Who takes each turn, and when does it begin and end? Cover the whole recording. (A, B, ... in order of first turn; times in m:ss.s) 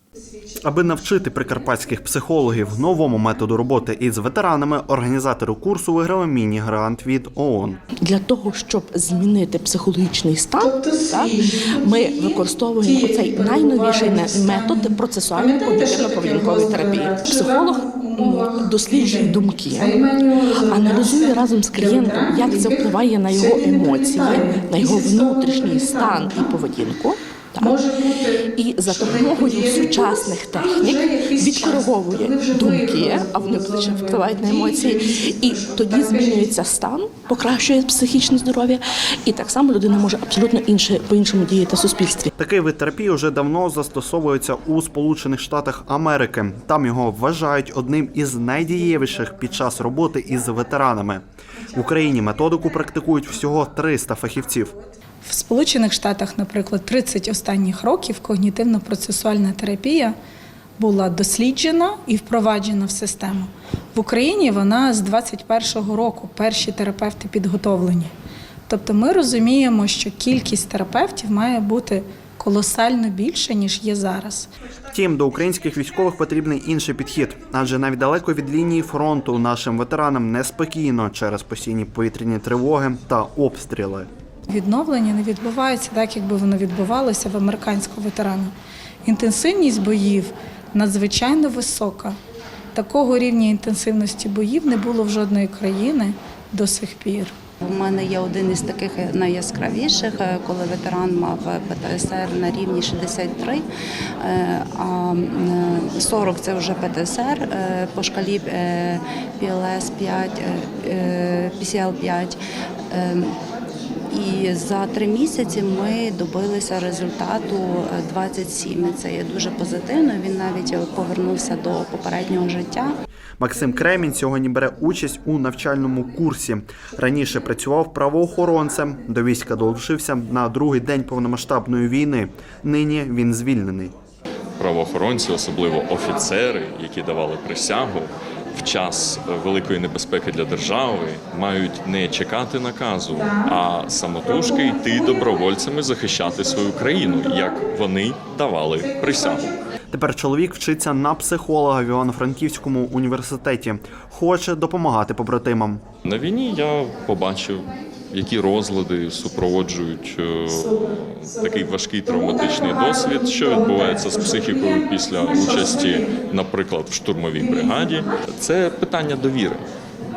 0:00.6-0:07.8 A
0:08.0-0:27.8 B
0:10.6-0:26.5 C
0:27.6-0:36.6 C
0:28.4-0:42.3 B
0:42.4-0:51.2 A
0:51.7-0:54.8 A
0:55.2-1:00.1 C
1:00.8-1:08.1 C
1:08.7-1:14.5 C
1:14.9-1:24.1 A
1:24.5-1:28.5 C
1:29.0-1:32.2 C
1:32.7-1:37.3 C
1:37.7-1:43.6 D
1:44.2-1:52.4 D
1:52.9-1:53.3 D
1:54.1-2:02.9 D
2:03.4-2:13.9 A
2:14.6-2:29.5 E
2:29.9-2:35.8 A
2:36.0-2:49.6 E